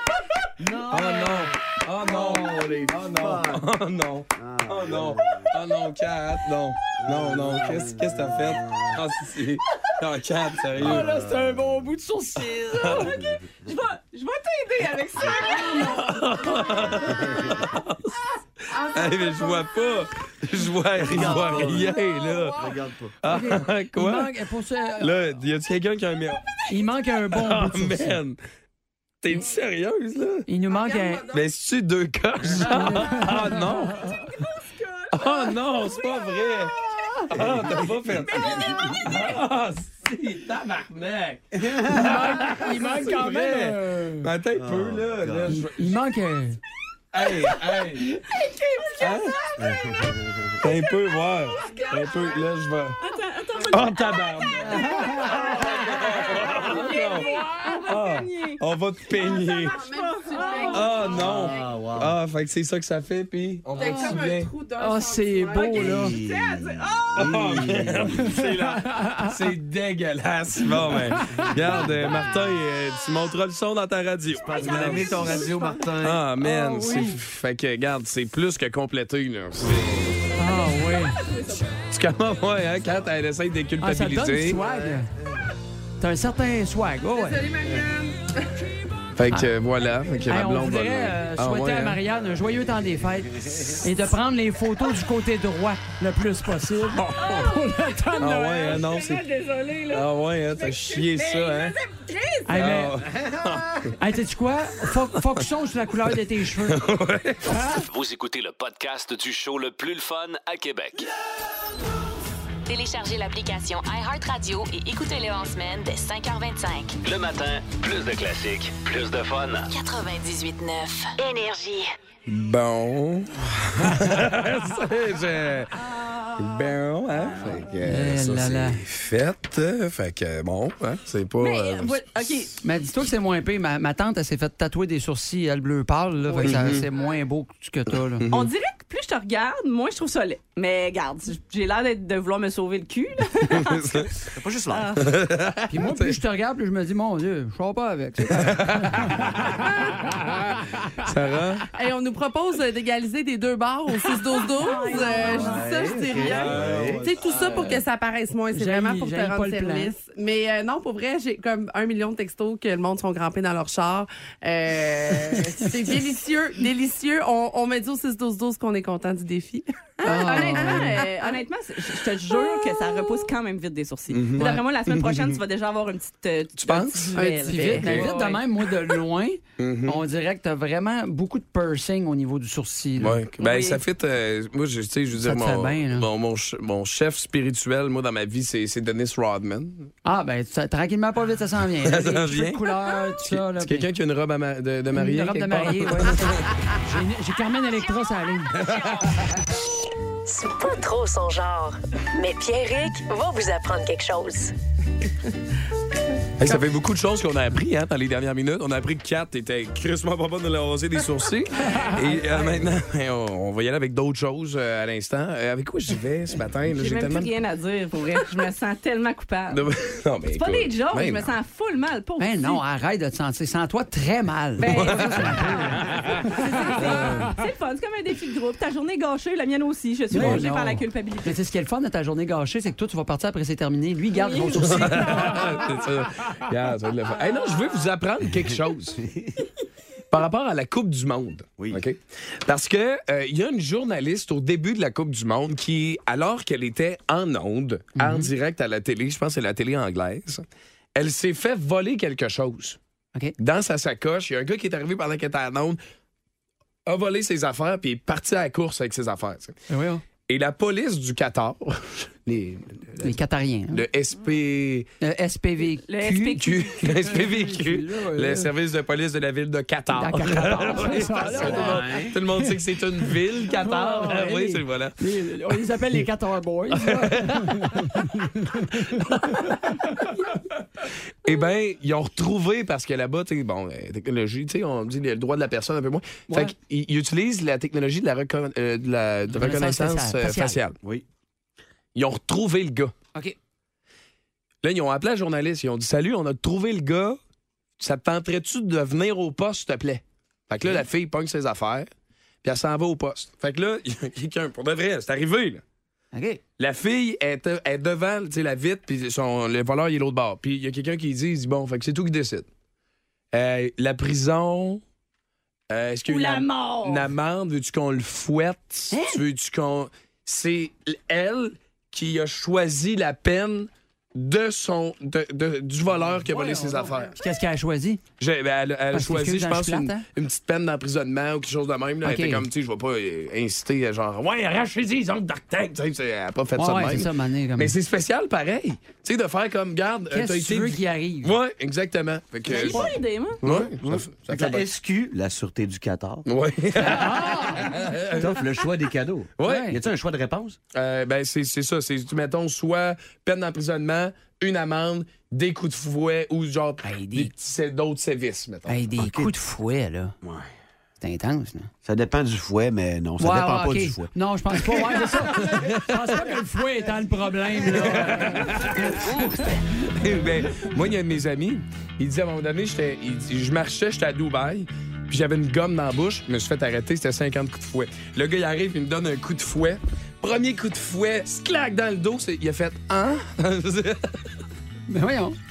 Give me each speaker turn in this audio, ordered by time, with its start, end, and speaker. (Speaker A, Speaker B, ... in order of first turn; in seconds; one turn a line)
Speaker A: 0.6-3.7
Speaker B: 0.9-11.1
Speaker A: 4.3-5.5
Speaker A: 7.0-9.0
Speaker A: 10.8-11.4
Speaker C: 10.8-13.0
Speaker B: 12.6-13.2
Speaker D: 12.8-15.9
Speaker A: 13.2-13.4
Speaker E: 15.6-16.1
Speaker B: 15.6-18.2
Speaker A: 17.2-17.6
Speaker B: 18.7-24.3
Speaker E: 19.0-19.7
Speaker A: 20.9-23.1
Speaker C: 23.3-25.2
Speaker B: 25.0-26.6
Speaker C: 26.7-28.2
Speaker B: 27.3-28.4
Speaker B: 29.2-30.5
Speaker C: 30.5-31.2
Speaker E: 30.7-31.4
Speaker B: 31.3-34.1
Speaker C: 32.6-33.7
Speaker B: 35.1-36.8
Speaker B: 37.3-46.0
Speaker A: 37.4-37.7
Speaker A: 38.6-38.9
Speaker A: 41.5-42.1
Speaker C: 41.9-44.2
Speaker A: 44.5-45.6
Speaker C: 45.5-46.6
Speaker B: 47.1-48.2
Speaker D: 48.3-49.3
Speaker B: 49.0-49.4
Speaker A: 49.6-50.6
Speaker B: 50.6-53.0
Speaker D: 51.7-52.3
Speaker D: 53.0-58.6
Speaker B: 53.7-59.8
Speaker E: 56.7-57.7
Speaker E: 59.2-61.6
Speaker D: 59.2-61.1
Speaker B: 60.7-64.5
Speaker A: 61.0-62.1
Speaker E: 63.7-67.2
Speaker C: 63.8-64.2
Speaker C: 64.8-66.2
Speaker A: 65.6-68.3
Speaker B: 67.2-80.2
Speaker C: 68.3-69.3
Speaker C: 70.9-71.4
Speaker A: 71.3-72.3
Speaker A: 74.4-76.2
Speaker E: 75.3-75.8
Speaker C: 76.4-77.2
Speaker C: 80.3-81.2
Speaker B: 81.9-84.6
Speaker C: 83.8-85.1
Speaker C: 86.0-87.5
Speaker E: 87.1-88.7
Speaker B: 89.1-92.0
Speaker C: 90.3-98.8
Speaker B: 98.2-99.2
Speaker D: 98.6-102.5
Speaker B: 99.9-101.8
Speaker C: 102.5-103.0
Speaker B: 102.5-103.9
Speaker C: 104.0-106.8
Speaker B: 106.6-107.8
Speaker F: 107.9-111.1
Speaker G: 112.7-117.0
Speaker F: 117.0-119.7
Speaker G: 119.7-121.9
Speaker B: 122.2-132.0
Speaker C: 127.8-128.8
Speaker D: 131.4-132.5
Speaker C: 132.6-138.2
Speaker B: 136.4-136.8
Speaker B: 138.2-138.5
Speaker D: 138.3-144.0
Speaker B: 143.5-144.1
Speaker A: 144.3-144.9
Speaker D: 144.7-145.0
Speaker B: 145.0-146.2
Speaker C: 145.7-149.0
Speaker B: 148.3-149.6
Speaker B: 151.0-151.7
Speaker E: 151.8-171.4
Speaker D: 154.6-155.6
Speaker A: 155.3-157.1
Speaker B: 156.2-157.8
Speaker C: 158.5-159.9
Speaker D: 170.0-178.4
Speaker C: 170.0-171.0
Speaker B: 174.1-175.3
Speaker B: 176.6-178.1
Speaker C: 177.2-183.2
Speaker B: 179.6-180.0
Speaker B: 183.0-189.9
Speaker D: 183.4-183.8
Speaker C: 185.2-186.1
Speaker C: 190.0-193.9
Speaker B: 191.8-196.6
Speaker C: 194.9-198.6
Speaker B: 198.6-199.2
Speaker G: 200.2-204.5
Speaker B: 206.4-217.3
Speaker D: 216.7-219.6
Speaker B: 219.5-221.3
Speaker D: 220.3-222.6
Speaker C: 222.2-225.9
Speaker D: 224.6-231.4
Speaker B: 224.7-227.3
Speaker C: 230.1-235.4
Speaker B: 230.1-230.4
Speaker D: 234.1-235.6
Speaker B: 234.6-239.1
Speaker A: 239.0-239.3
Speaker B: 240.1-252.8
Speaker C: 247.9-248.3
Speaker B: 253.4-255.8
Speaker B: 256.9-259.5
Speaker C: 259.7-260.0
Speaker B: 260.3-263.1
Speaker C: 263.0-263.8
Speaker B: 263.7-264.9
Speaker C: 265.0-268.5
Speaker D: 265.9-266.9
Speaker B: 266.4-275.0
Speaker C: 269.9-272.6
Speaker A: 271.2-272.1
Speaker C: 273.1-278.7
Speaker B: 276.7-280.3
Speaker B: 281.2-290.8
Speaker C: 286.3-286.5
Speaker C: 289.3-290.6
Speaker B: 291.9-292.9
Speaker B: 294.6-297.2
Speaker B: 297.8-301.9
Speaker B: 302.4-305.6
Speaker C: 306.1-306.4
Speaker B: 306.6-312.5
Speaker B: 313.3-314.8
Speaker B: 315.7-327.1
Speaker D: 316.1-317.1
Speaker C: 318.9-319.2
Speaker C: 326.3-328.0
Speaker B: 328.2-344.7
Speaker C: 328.9-330.0
Speaker C: 332.0-332.4
Speaker C: 336.6-337.7
Speaker C: 340.1-341.3
Speaker D: 342.5-343.4
Speaker A: 342.6-346.2
Speaker B: 346.2-348.4
Speaker C: 346.8-347.7
Speaker A: 348.1-350.6
Speaker B: 349.4-349.8
Speaker C: 349.4-349.8
Speaker B: 350.7-358.9
Speaker C: 356.8-357.3
Speaker C: 358.7-360.1
Speaker A: 359.0-359.3
Speaker C: 361.0-361.7
Speaker A: 361.8-364.9
Speaker C: 363.2-369.5
Speaker B: 365.4-365.8
Speaker B: 367.7-384.3
Speaker C: 384.9-385.4